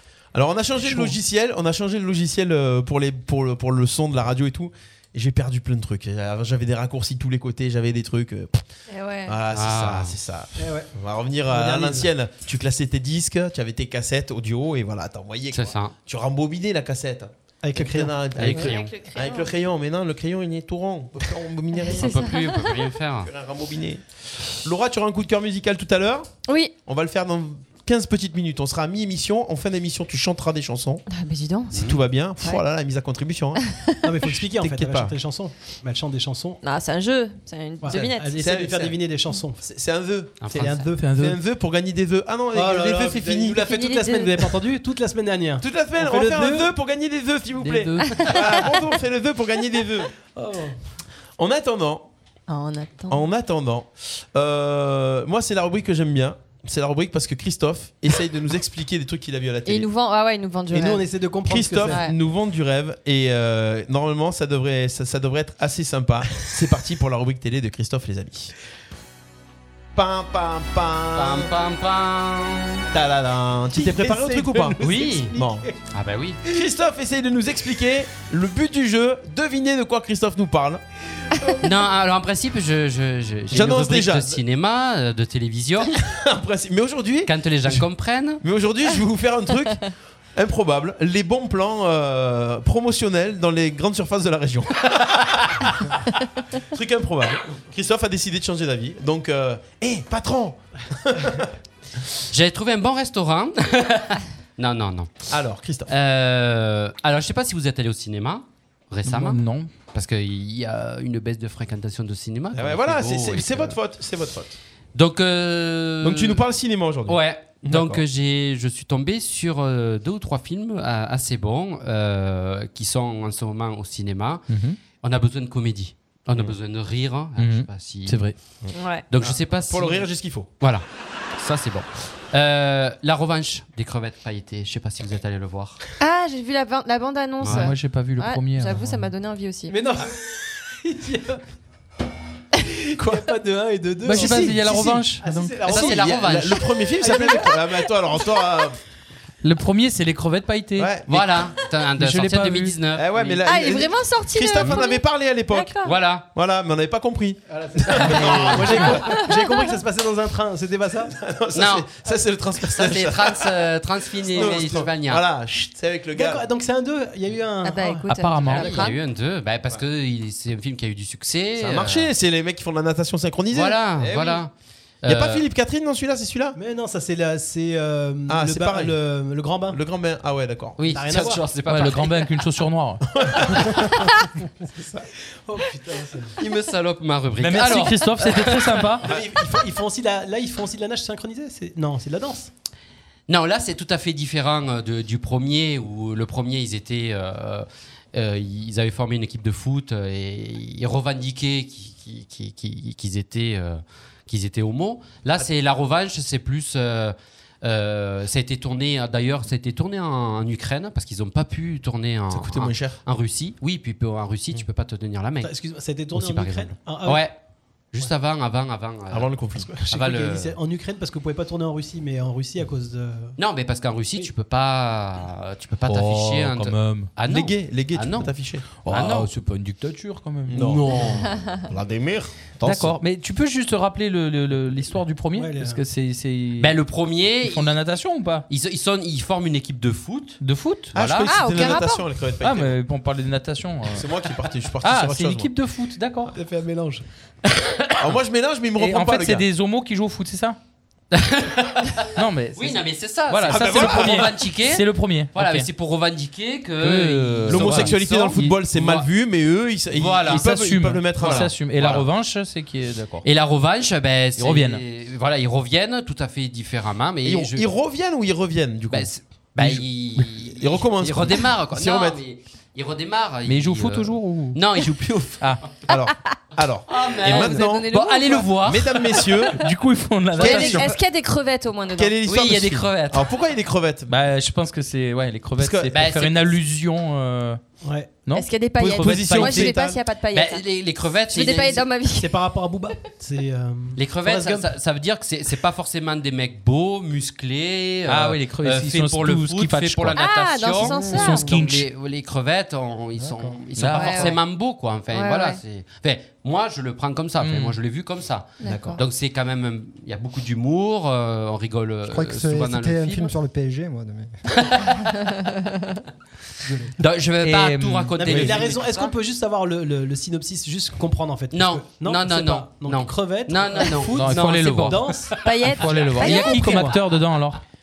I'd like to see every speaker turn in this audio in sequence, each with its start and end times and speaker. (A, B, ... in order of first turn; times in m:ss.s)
0:00.3-0:08.6 A
0:08.9-0:09.4 B
0:09.2-0:22.2 A
0:09.5-0:10.2 C
0:10.6-0:10.9 D
0:11.5-0:12.1 D
0:15.5-0:15.9 C
0:17.6-0:18.6 D
0:18.4-0:18.9 C
0:18.6-0:19.5 B
0:21.8-0:22.8 B
0:21.9-0:23.3 C
0:23.2-0:24.0 A
0:24.6-0:26.3 A
0:26.4-0:26.7 B
0:26.8-0:31.0 A
0:31.1-0:31.9 B
0:31.7-0:32.0 C
0:31.7-0:33.6 A
0:33.6-0:33.9 B
0:34.0-0:36.6 D
0:34.5-0:35.1 A
0:36.6-0:38.3 B
0:37.8-0:39.6 D
0:37.9-0:39.0 A
0:39.6-0:43.7 A
0:40.4-0:40.8 C
0:40.4-0:41.1 D
0:41.0-0:41.4 E
0:42.5-0:46.7 D
0:43.6-0:44.5 B
0:45.6-0:50.1 A
0:47.6-0:48.4 E
0:48.0-0:48.7 B
0:50.4-0:50.7 D
0:51.4-0:52.1 A
0:52.5-0:53.2 B
0:53.1-0:59.9 A
0:59.6-1:01.0 B
1:00.7-1:02.0 D
1:01.5-1:08.5 A
1:01.8-1:02.1 B
1:09.9-1:11.5 A
1:11.1-1:12.8 C
1:12.9-1:14.8 A
1:13.7-1:15.7 D
1:14.8-1:15.3 C
1:15.3-1:15.6 A
1:15.9-1:16.4 C
1:16.4-1:20.8 A
1:21.6-1:25.9 C
1:23.5-1:24.4 A
1:26.0-1:27.8 A
1:27.2-1:28.4 C
1:28.4-1:35.9 A
1:36.6-1:41.5 A
1:42.3-1:45.3 C
1:45.3-1:45.9 A
1:45.9-1:49.4 C
1:49.0-1:49.7 E
1:49.9-1:53.8 C
1:52.5-1:54.6 A
1:54.9-1:56.4 C
1:56.0-1:58.0 A
1:57.1-2:08.2 C
2:04.5-2:04.8 E
2:07.4-2:08.4 E
2:08.6-2:10.5 A
2:08.7-2:09.0 B
2:09.1-2:10.1 C
2:10.6-2:15.8 C
2:16.0-2:19.8 B
2:17.4-2:17.7 C
2:17.5-2:19.1 E
2:19.7-2:21.4 D
2:22.9-2:26.1 D
2:24.0-2:25.6 E
2:24.2-2:24.5 A
2:25.7-2:28.8 A
2:25.7-2:26.8 C
2:27.0-2:27.5 D
2:29.4-2:30.9 E
2:30.8-2:31.5 A
2:31.1-2:33.4 C
2:32.0-2:32.8 E
2:32.9-2:39.2 A
2:33.4-2:36.0 B
2:35.8-2:36.2 C
2:37.5-2:41.1 D
2:38.3-2:39.6 B
2:41.1-2:43.6 A
2:41.5-2:41.9 C
2:42.6-2:45.2 C
2:44.2-2:46.4 A
2:44.4-2:44.6 D
2:46.1-2:48.0 D
2:47.6-2:49.0 B
2:48.1-2:48.8 E
2:48.4-2:52.1 C
2:51.6-2:54.4 A
2:53.5-2:54.5 C
2:55.0-2:55.4 C
2:55.0-2:56.6 A
2:56.5-2:59.8 D
2:58.3-2:59.0 A
2:59.7-3:00.8 A
3:00.8-3:02.3 C
3:00.9-3:01.4 D
3:01.7-3:03.0 E
3:03.2-3:03.9 A
3:04.7-3:05.0 A
3:05.5-3:06.3 D
3:06.4-3:08.9 C
3:07.4-3:09.0 E
3:09.0-3:12.5 D
3:09.0-3:09.5 A
3:13.3-3:35.5 C
3:32.3-3:33.0 A
3:35.4-3:37.3 D
3:36.1-3:37.3 C
3:37.9-3:39.3 C
3:39.1-3:39.7 A
3:39.7-3:43.3 D
3:39.9-3:40.6 C
3:43.4-3:48.3 C
3:45.8-3:47.1 E
3:47.3-3:48.6 A
3:48.8-3:51.4 E
3:48.8-3:49.3 C
3:50.5-3:51.0 A
3:51.3-3:51.6 B
3:51.7-3:53.0 A
3:52.6-3:56.8 E
3:55.3-3:55.8 D
3:56.6-3:57.7 C
3:57.4-3:58.4 E
3:58.5-4:00.4 C
4:00.4-4:01.3 E
4:00.9-4:02.8 A
4:01.2-4:02.0 B
4:02.4-4:04.1 E
4:03.9-4:05.5 A
4:04.8-4:06.3 E
4:06.3-4:07.0 D
4:07.6-4:07.9 E
4:08.0-4:09.4 A
4:08.8-4:10.6 E
4:11.1-4:19.0 C
4:12.2-4:15.7 E
4:13.5-4:14.3 A
4:16.8-4:18.6 E
4:17.5-4:22.1 A
4:19.9-4:20.5 C
4:20.2-4:23.2 E
4:21.2-4:22.0 C
4:23.2-4:27.7 C
4:24.4-4:24.8 E
4:27.2-4:32.2 A
4:28.9-4:35.4 C
4:33.4-4:34.6 E
4:35.4-4:35.6 E
4:35.9-4:39.7 A
4:36.9-4:39.1 C
4:37.3-4:39.3 B
4:39.6-4:40.9 E
4:40.4-4:42.2 B
4:40.4-4:41.0 A
4:41.9-4:44.1 A
4:42.2-4:43.3 C
4:44.1-4:47.6 E
4:45.6-4:45.9 A
4:45.9-4:46.4 C
4:47.8-4:48.1 D
4:48.2-4:49.4 E
4:48.3-4:50.6 B
4:48.8-4:50.0 A
4:50.3-4:51.8 C
4:51.3-4:52.3 B
4:52.1-4:54.7 D
4:54.0-5:13.3 C
4:58.0-5:00.2 E
5:00.1-5:01.6 B
5:00.9-5:01.9 E
5:03.2-5:03.6 F
5:03.7-5:04.3 E
5:03.9-5:04.4 B
5:05.1-5:05.6 B
5:07.4-5:07.8 E
5:08.6-5:09.0 B
5:12.1-5:14.3 F
5:14.5-5:15.0 C
5:15.3-5:16.0 B
5:17.0-5:19.1 C
5:17.4-5:18.6 E
5:18.2-5:25.3 D
5:21.5-5:25.4 C
5:24.1-5:27.6 E
5:25.4-5:26.9 B
5:25.8-5:27.0 D